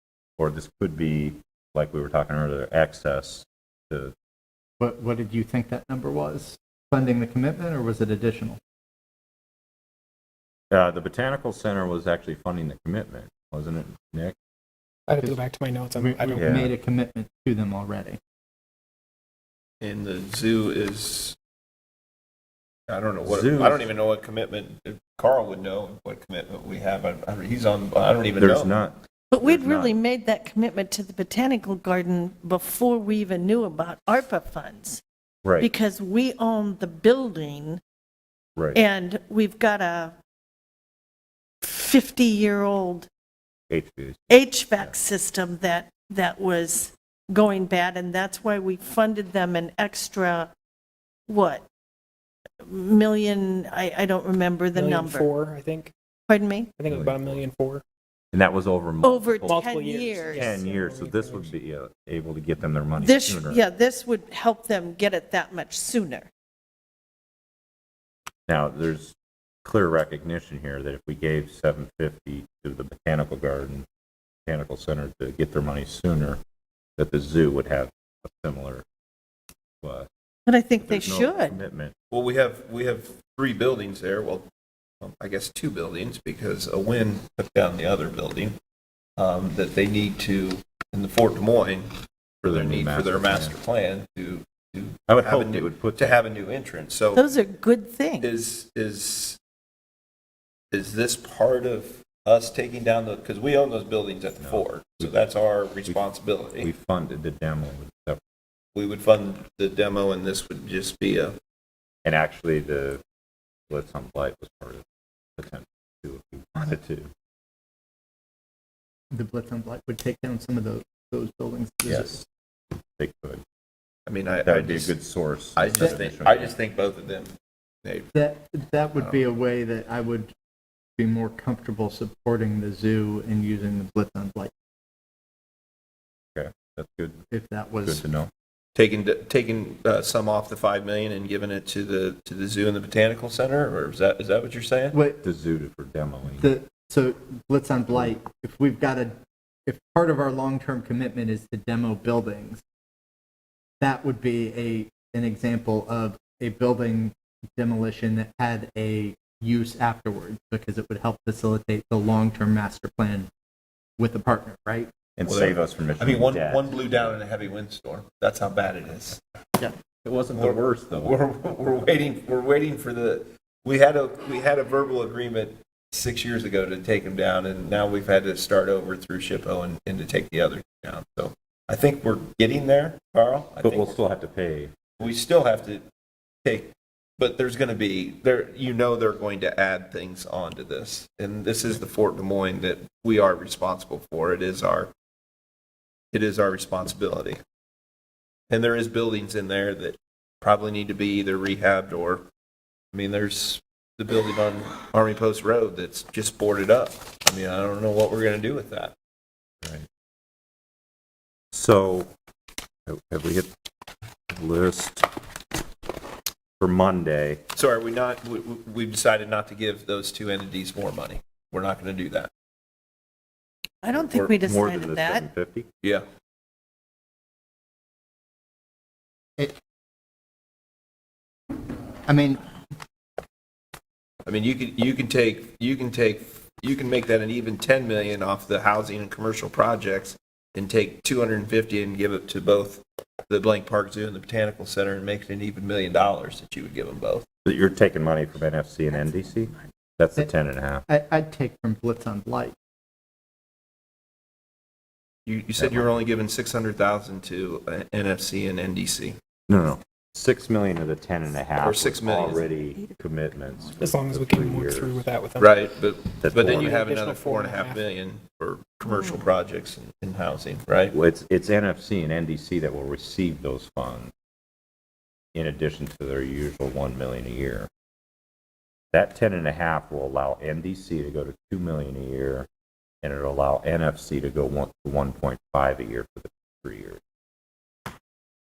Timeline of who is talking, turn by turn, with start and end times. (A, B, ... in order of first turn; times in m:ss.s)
0:00.4-0:04.1 A
0:04.8-0:08.6 B
0:10.7-0:14.4 A
0:15.1-0:16.6 C
0:16.0-0:18.2 B
0:16.4-0:16.7 A
0:19.8-0:21.4 D
0:22.9-0:28.7 D
0:23.2-0:23.9 A
0:28.4-0:29.9 A
0:29.3-0:35.0 E
0:35.4-0:35.7 A
0:35.6-0:37.8 E
0:38.6-0:38.8 A
0:38.7-0:40.1 E
0:41.6-0:43.1 E
0:43.7-0:44.9 A
0:44.3-0:50.5 E
0:51.3-0:51.6 E
0:52.6-0:55.3 E
0:54.7-0:55.9 C
0:56.3-0:56.7 E
0:56.8-0:57.8 C
0:56.9-0:57.4 A
0:58.3-0:59.6 A
0:59.0-1:00.5 E
0:59.4-1:01.5 C
1:00.3-1:03.6 A
1:03.0-1:06.3 E
1:08.5-1:13.8 A
1:14.4-1:16.4 A
1:17.0-1:18.8 A
1:19.8-1:20.1 A
1:20.5-1:21.6 E
1:20.8-1:21.9 A
1:22.1-1:24.5 D
1:25.0-1:28.5 D
1:29.2-1:37.3 D
1:32.4-1:33.6 A
1:35.1-1:36.2 A
1:37.1-1:38.3 E
1:38.2-1:39.4 D
1:40.7-1:46.7 D
1:44.4-1:45.2 A
1:46.6-1:48.2 A
1:48.7-1:51.4 D
1:52.0-1:53.0 A
1:53.7-1:54.8 A
1:55.4-1:57.1 A
1:59.1-2:02.2 B
2:01.9-2:02.2 D
2:03.0-2:03.4 A
2:04.0-2:05.0 D
2:04.4-2:06.5 A
2:05.6-2:07.3 D
2:07.8-2:08.1 D
2:08.1-2:10.3 B
2:09.0-2:09.2 D
2:11.0-2:14.5 B
2:16.3-2:17.2 A
2:17.3-2:18.0 B
2:17.8-2:18.3 A
2:18.7-2:25.0 D
2:24.9-2:25.2 B
2:25.2-2:26.5 A
2:26.4-2:29.1 B
2:29.6-2:32.6 B
2:33.8-2:43.3 B
2:44.0-2:44.9 B
2:45.2-2:47.1 A
2:45.2-2:49.2 D
2:50.0-2:51.2 A
2:50.3-3:04.0 D
3:03.6-3:04.8 A
3:05.0-3:05.8 D
3:06.4-3:14.9 D
3:16.1-3:17.4 D
3:18.5-3:22.2 D
3:22.9-3:28.9 D
3:31.5-3:32.1 A
3:32.8-3:33.5 A
3:34.3-3:35.1 A
3:36.6-3:37.4 A
3:37.5-3:42.3 D
3:43.8-3:45.2 E
3:43.9-3:45.7 A
3:52.1-3:52.4 B
3:54.2-4:07.2 D
4:07.4-4:10.8 A
4:08.9-4:09.6 E
4:10.9-4:12.5 B
4:15.2-4:19.2 D
4:15.6-4:16.0 A
4:19.5-4:25.0 A
4:21.6-4:22.5 D
4:22.7-4:24.0 E
4:23.8-4:25.6 C
4:25.4-4:30.9 D
4:26.2-4:26.7 A
4:26.4-4:27.8 C
4:28.9-4:29.1 E
4:30.9-4:34.1 A
4:35.3-4:37.7 A
4:38.9-4:42.5 A
4:43.0-4:47.0 A